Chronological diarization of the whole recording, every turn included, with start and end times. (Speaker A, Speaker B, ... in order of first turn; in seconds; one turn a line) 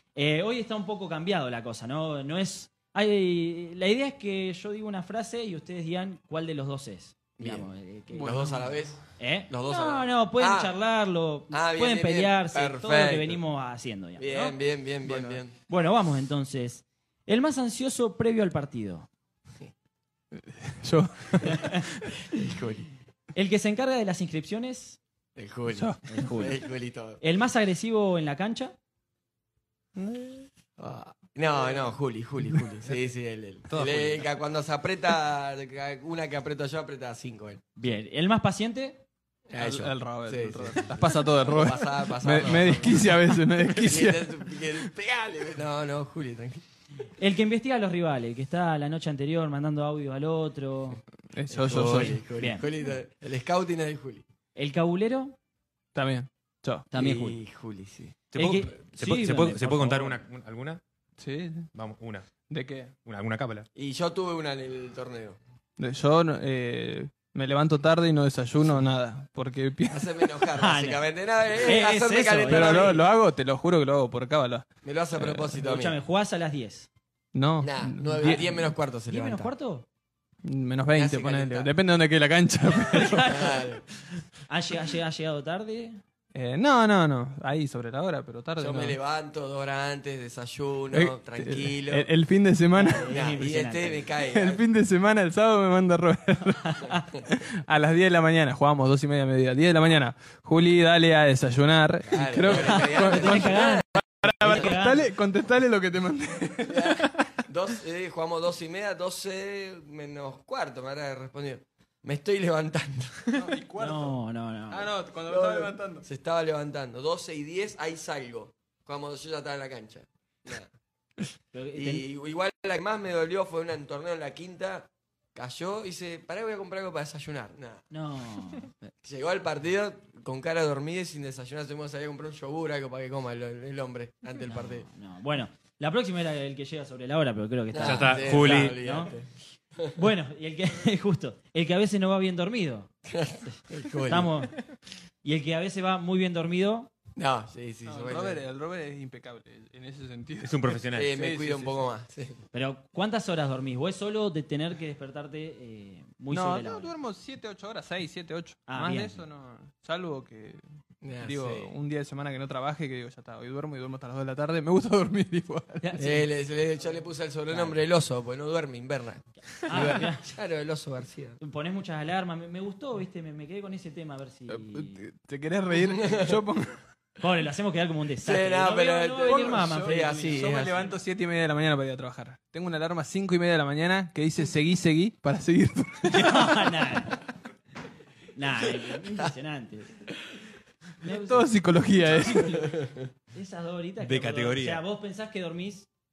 Speaker A: 0.1-8.5
Speaker B: 7.4-10.7
Speaker C: 8.1-8.7
Speaker A: 9.2-14.6
Speaker B: 11.5-13.4
Speaker B: 14.2-15.6
Speaker C: 15.0-15.4
Speaker A: 15.7-19.1
Speaker C: 20.3-22.1
Speaker A: 21.4-21.8
Speaker B: 22.3-22.9
Speaker A: 23.3-25.0
Speaker B: 25.4-27.2
Speaker C: 25.7-26.0
Speaker A: 26.1-26.6
Speaker A: 27.2-28.8
Speaker C: 30.0-30.5
Speaker B: 30.8-37.6
Speaker C: 31.6-31.9
Speaker D: 33.7-34.3
Speaker A: 37.8-39.0
Speaker B: 39.5-43.1
Speaker C: 39.6-44.9
Speaker B: 43.7-46.6
Speaker A: 47.2-51.0
Speaker C: 51.3-52.2
Speaker B: 51.5-54.2
Speaker A: 51.7-52.7
Speaker A: 54.6-55.4
Speaker C: 56.0-56.9
Speaker A: 56.9-57.4
Speaker B: 56.9-58.2
Speaker D: 58.3-60.8
Speaker A: 58.4-60.2
Speaker C: 61.2-61.7
Speaker D: 61.7-62.3
Speaker C: 62.5-62.9
Speaker D: 63.0-63.7
Speaker B: 63.8-65.4
Speaker C: 65.8-70.4
Speaker B: 69.9-73.0
Speaker A: 70.6-71.0
Speaker A: 71.6-72.9
Speaker C: 72.5-75.6
Speaker B: 74.8-76.0
Speaker A: 75.6-76.9
Speaker C: 77.3-78.7
Speaker B: 77.6-79.5
Speaker A: 79.1-79.9
Speaker C: 80.4-83.4
Speaker B: 81.0-81.7
Speaker A: 82.8-83.6
Speaker B: 83.3-83.8
Speaker A: 84.5-86.0
Speaker C: 86.3-89.0
Speaker B: 88.6-92.1
Speaker C: 90.9-93.1
Speaker A: 92.8-94.1
Speaker B: 93.0-94.6
Speaker C: 94.3-107.4
Speaker B: 102.1-103.9
Speaker A: 102.5-105.1
Speaker B: 104.4-104.8
Speaker B: 106.7-113.4
Speaker C: 113.3-114.2
Speaker A: 113.8-114.9
Speaker C: 114.7-116.0
Speaker B: 115.3-120.7
Speaker A: 121.5-122.0
Speaker B: 121.8-127.9
Speaker A: 127.9-128.9
Speaker B: 129.0-134.9
Speaker A: 134.4-139.1
Speaker B: 137.7-139.9
Speaker D: 137.8-138.8
Speaker A: 139.9-142.9
Speaker B: 143.1-144.3
Speaker A: 143.5-144.6
Speaker A: 145.2-146.9
Speaker B: 147.2-148.4
Speaker C: 147.8-151.8
Speaker D: 150.4-151.2
Speaker B: 150.9-152.4
Speaker A: 152.5-156.9
Speaker C: 156.3-160.6
Speaker A: 158.7-159.2
Speaker B: 161.0-161.7
Speaker C: 161.2-165.8
Speaker A: 165.8-167.0
Speaker B: 166.0-171.4
Speaker A: 167.5-167.8
Speaker A: 169.4-170.3
Speaker A: 171.4-175.0
Speaker C: 174.5-176.8
Speaker B: 175.9-176.3
Speaker A: 177.2-180.9
Speaker B: 178.2-180.9
Speaker C: 179.2-186.7
Speaker A: 186.1-187.2
Speaker A: 188.3-190.1
Speaker A: 191.0-191.5
Speaker C: 191.0-192.7
Speaker A: 192.0-192.8
Speaker A: 193.3-195.9
Speaker D: 194.0-194.8